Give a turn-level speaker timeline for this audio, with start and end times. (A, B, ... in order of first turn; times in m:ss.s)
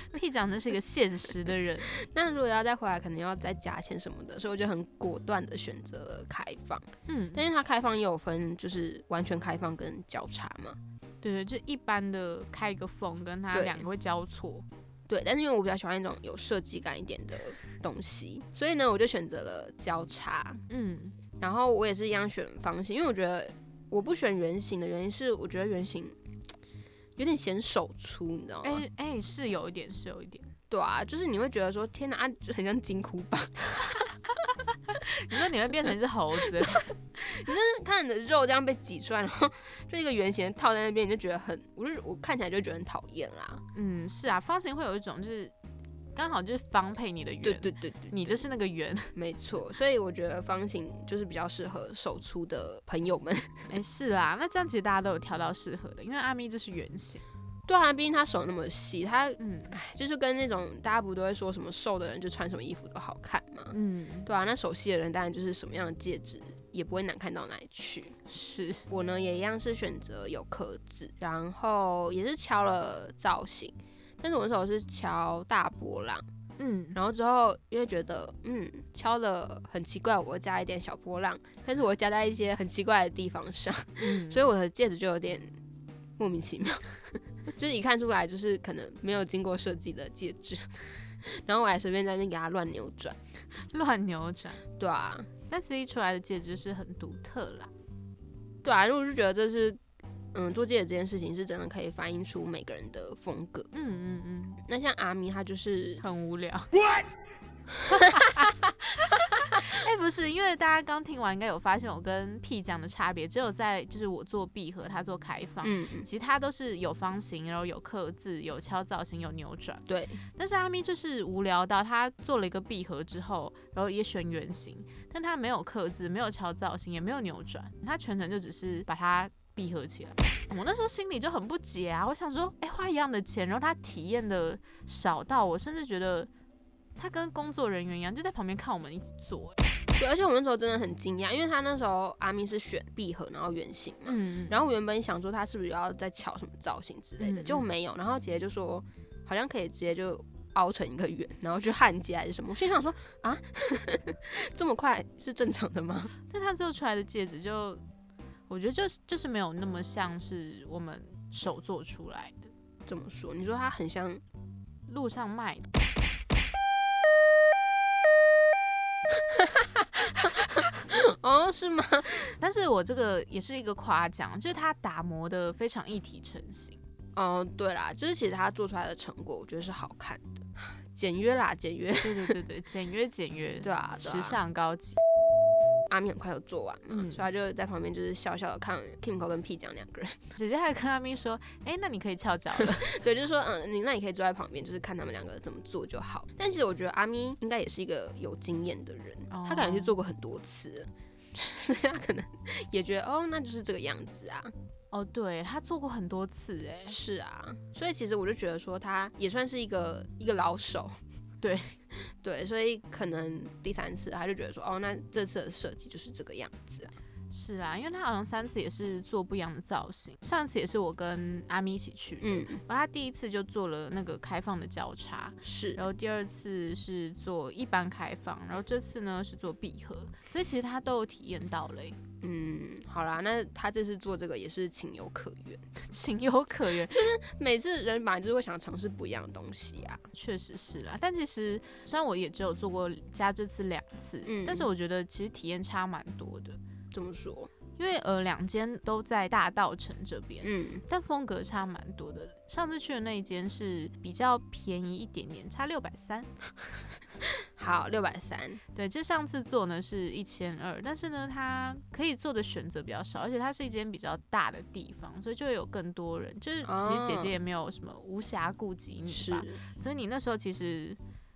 0:00.1-0:01.9 A
0:01.9-0:10.8 B
0:07.1-0:07.4 A
0:11.2-0:14.6 A
0:13.5-0:13.8 B
0:15.1-0:20.6 B
0:20.7-0:21.2 A
0:21.4-0:26.2 B
0:27.2-0:28.8 B
0:28.6-0:30.5 A
0:30.7-0:34.1 B
0:34.9-0:36.8 A
0:36.6-0:43.6 B
0:43.7-0:45.5 A
0:46.1-0:49.1 A
0:47.4-0:48.4 B
0:49.1-0:53.7 B
0:53.7-0:57.2 A
0:57.7-1:08.2 B
0:59.4-0:59.7 A
1:03.7-1:04.3 A
1:08.3-1:08.8 A
1:08.9-1:16.2 B
1:16.6-1:17.0 A
1:16.9-1:25.5 B
1:24.0-1:24.4 A
1:26.2-1:33.2 B
1:33.7-1:34.6 A
1:34.8-1:35.3 B
1:35.5-1:37.7 A
1:38.6-1:39.8 B
1:40.3-1:43.7 B
1:43.7-1:44.6 A
1:44.6-1:46.0 B
1:46.0-1:46.7 A
1:47.7-1:48.5 B
1:47.9-2:16.3 A
1:55.6-1:56.1 B
1:59.9-2:00.2 B
2:17.0-2:19.6 A
2:20.0-2:36.1 B
2:24.0-2:24.6 A
2:27.2-2:27.6 A
2:36.3-2:37.8 A
2:38.5-2:42.5 A
2:42.9-2:44.2 B
2:44.9-2:45.7 A
2:49.3-2:50.3 B
2:50.8-2:52.3 B
2:52.4-2:56.8 A
2:57.1-3:02.4 B
3:02.0-3:05.0 A
3:03.6-3:04.4 B
3:05.9-3:10.2 B
3:06.9-3:07.2 A
3:10.4-3:12.9 A
3:12.6-3:24.5 B
3:19.3-3:19.9 A
3:24.9-3:27.0 A
3:26.9-3:31.0 B
3:31.4-3:31.8 A
3:32.2-3:36.9 B
3:37.3-3:52.0 A
3:42.2-3:42.6 B
3:45.4-3:45.8 B
3:52.2-3:55.6 B
3:55.8-3:57.0 A
3:56.8-4:00.0 B
4:00.1-4:06.6 A
4:04.2-4:04.7 B
4:06.9-4:07.5 B
4:07.8-4:16.3 A
4:10.4-4:10.8 B
4:17.4-4:18.6 B
4:18.7-4:31.0 A
4:26.6-4:27.3 B
4:29.1-4:29.6 B